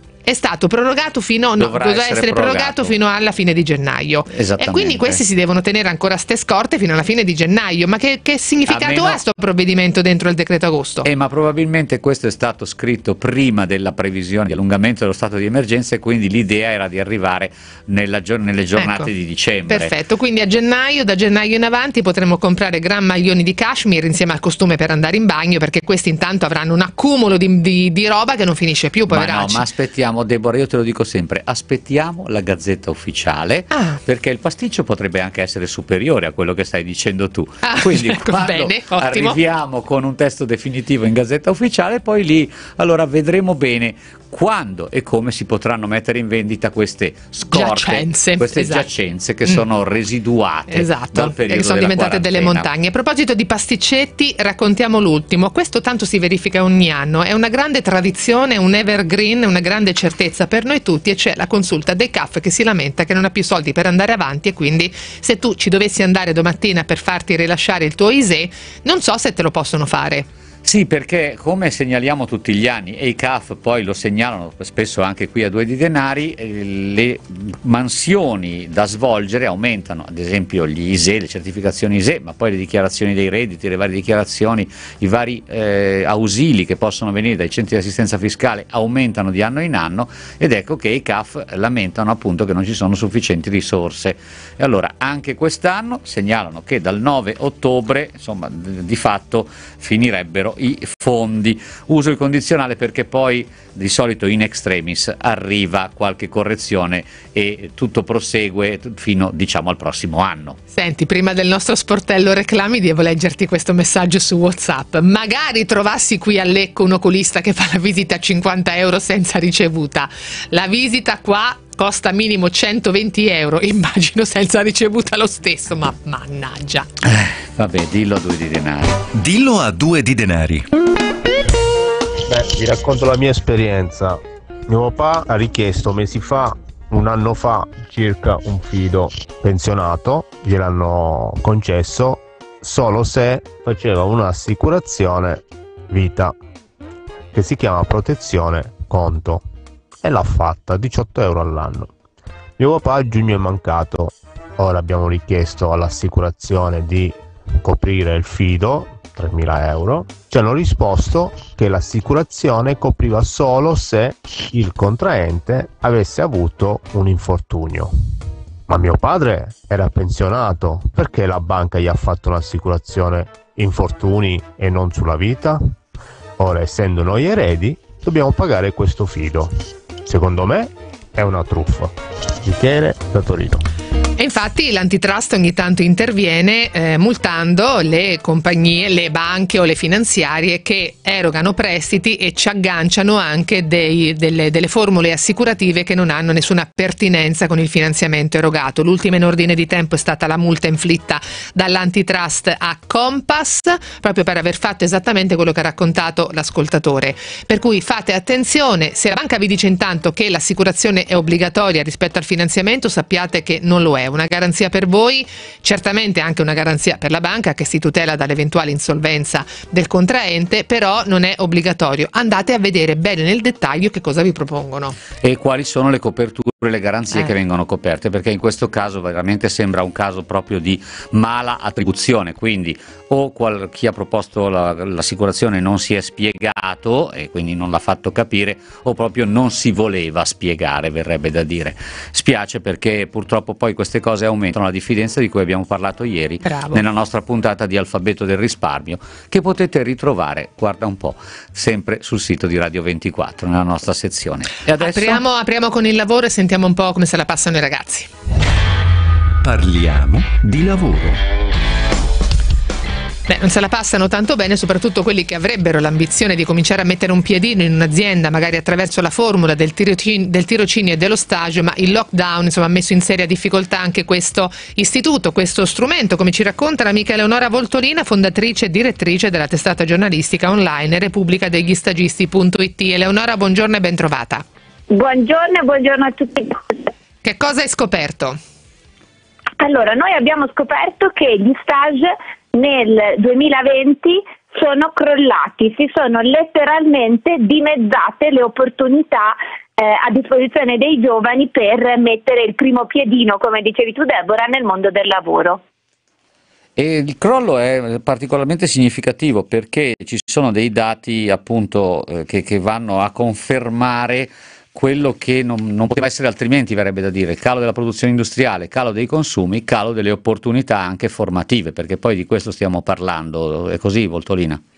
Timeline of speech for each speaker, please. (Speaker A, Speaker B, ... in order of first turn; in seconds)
Speaker A: 0.2-11.1, 18.8-19.1, 19.7-29.6, 33.7-34.0, 37.6-39.4, 47.5-48.9, 50.7-70.3, 110.7-126.9, 184.2-225.0, 246.4-246.8, 254.8-258.1, 263.3-284.4, 287.2-288.4
Speaker B: 1.6-2.9, 4.3-5.2, 8.7-9.2, 11.0-19.9, 29.1-52.7, 70.6-110.6, 127.0-129.0, 225.2-255.2, 306.8-324.6
Speaker C: 129.1-130.7, 259.4-261.2
Speaker D: 132.3-146.3, 147.3-149.4, 150.0-151.9, 152.6-167.9, 168.7-175.7, 176.4-179.5, 180.0-183.6
Speaker E: 284.9-286.9, 289.6-305.6